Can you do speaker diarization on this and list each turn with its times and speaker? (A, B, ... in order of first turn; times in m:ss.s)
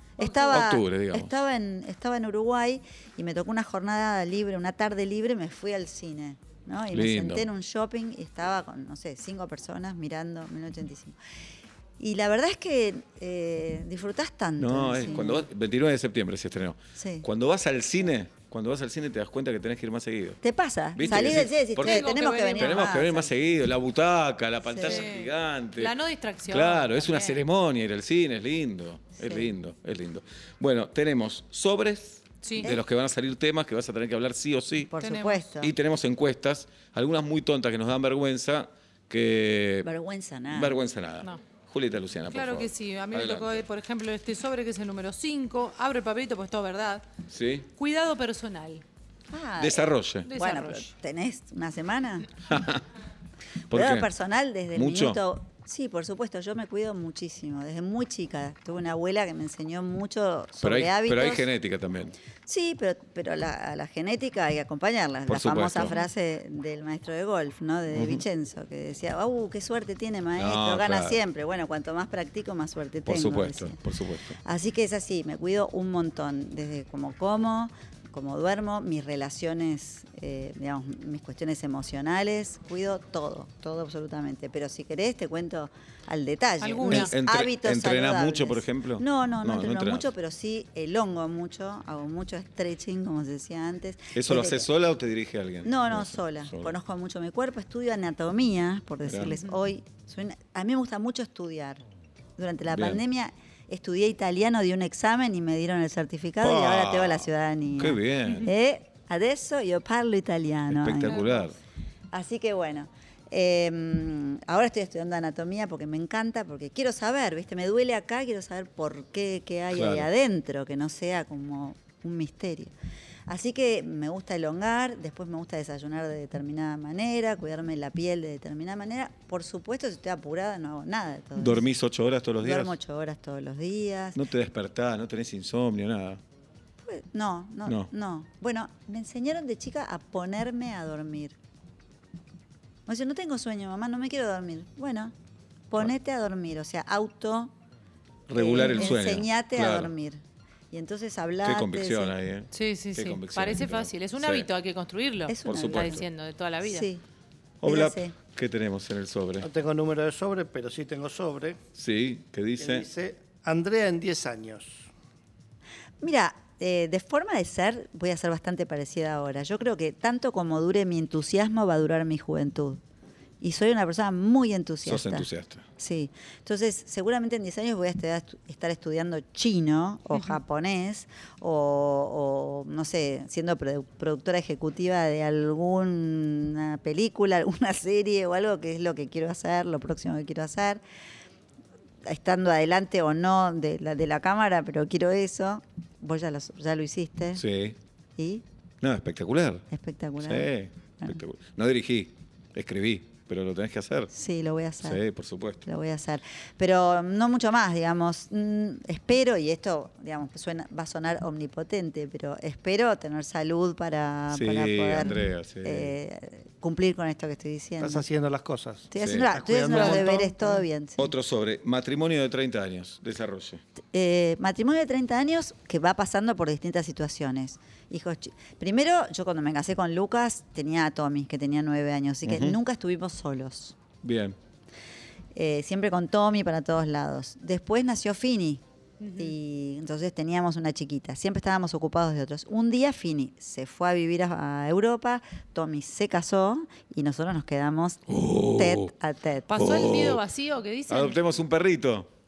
0:00.2-0:11.2 A
0:00.2-0:00.6 B
0:00.5-0:01.3 C
0:06.9-0:07.5 C
0:12.0-0:15.5 A
0:14.6-0:20.4 C
0:17.0-0:17.3 A
0:20.4-0:23.3 A
0:20.9-0:25.9 C
0:21.1-0:23.0 B
0:24.7-0:25.0 A
0:24.8-0:27.4 B
0:26.5-0:34.9 C
0:29.2-0:29.5 A
0:32.4-0:32.7 B
0:34.9-0:35.7 A
0:35.0-0:35.4 B
0:35.6-0:39.9 C
0:39.8-0:40.7 A
0:40.5-0:43.6 C
0:42.3-0:47.0 B
0:47.3-0:47.7 C
0:47.8-0:48.8 B
0:49.3-0:52.3 A
0:49.6-0:50.3 C
0:50.2-0:50.9 B
0:52.5-0:52.8 C
0:53.7-0:54.1 C
0:53.7-1:01.4 A
0:54.7-0:55.2 C
1:00.6-1:02.1 C
1:02.4-1:13.8 A
1:05.3-1:05.9 C
1:07.9-1:08.2 C
1:10.4-1:11.2 C
1:13.1-1:14.4 C
1:14.4-1:34.7 A
1:26.6-1:27.1 B
1:26.8-1:30.1 C
1:34.1-1:36.7 C
1:35.6-1:41.8 A
1:39.0-1:39.4 C
1:42.4-1:51.5 A
1:42.7-1:43.0 C
1:46.4-1:48.5 C
1:50.7-1:51.5 C
1:52.1-2:02.7 A
1:59.7-2:00.1 C
2:03.3-2:11.7 A
2:11.4-2:12.7 C
2:12.4-2:14.2 A
2:14.1-2:16.2 C
2:16.8-2:21.4 A
2:22.9-2:25.1 A
2:25.7-2:27.5 A
2:28.3-2:29.9 C
2:28.3-2:30.2 A
2:30.7-2:32.1 A
2:31.4-2:34.5 C
2:32.5-2:36.9 B
2:35.3-2:36.0 A
2:35.5-2:36.0 C
2:36.6-2:37.0 A
2:37.6-2:39.5 C
2:37.6-2:38.1 A
2:39.4-2:41.6 D
2:41.8-2:42.9 C
2:42.6-2:44.9 D
2:46.0-2:52.8 A
2:53.4-2:55.3 A
2:54.8-2:55.6 C
2:55.8-3:10.8 A
3:12.0-3:17.4 A
3:17.3-3:17.8 C
3:18.2-3:18.4 A
3:18.8-3:19.6 C
3:19.7-3:20.5 A
3:20.2-3:24.1 C
3:24.1-3:25.0 A
3:24.8-3:25.6 C
3:25.6-3:38.0 A
3:34.3-3:35.9 C
3:37.8-3:40.6 D
3:38.9-3:41.1 A
3:39.0-3:40.0 C
3:41.0-3:43.6 C
3:43.9-3:53.8 A
3:52.2-3:52.6 C
3:54.0-3:54.4 C
3:55.3-3:58.6 A
3:59.0-3:59.3 B
3:59.1-4:09.7 A
4:08.1-4:08.9 C
4:09.5-4:11.2 B
4:09.5-4:10.2 C
4:10.9-4:12.1 C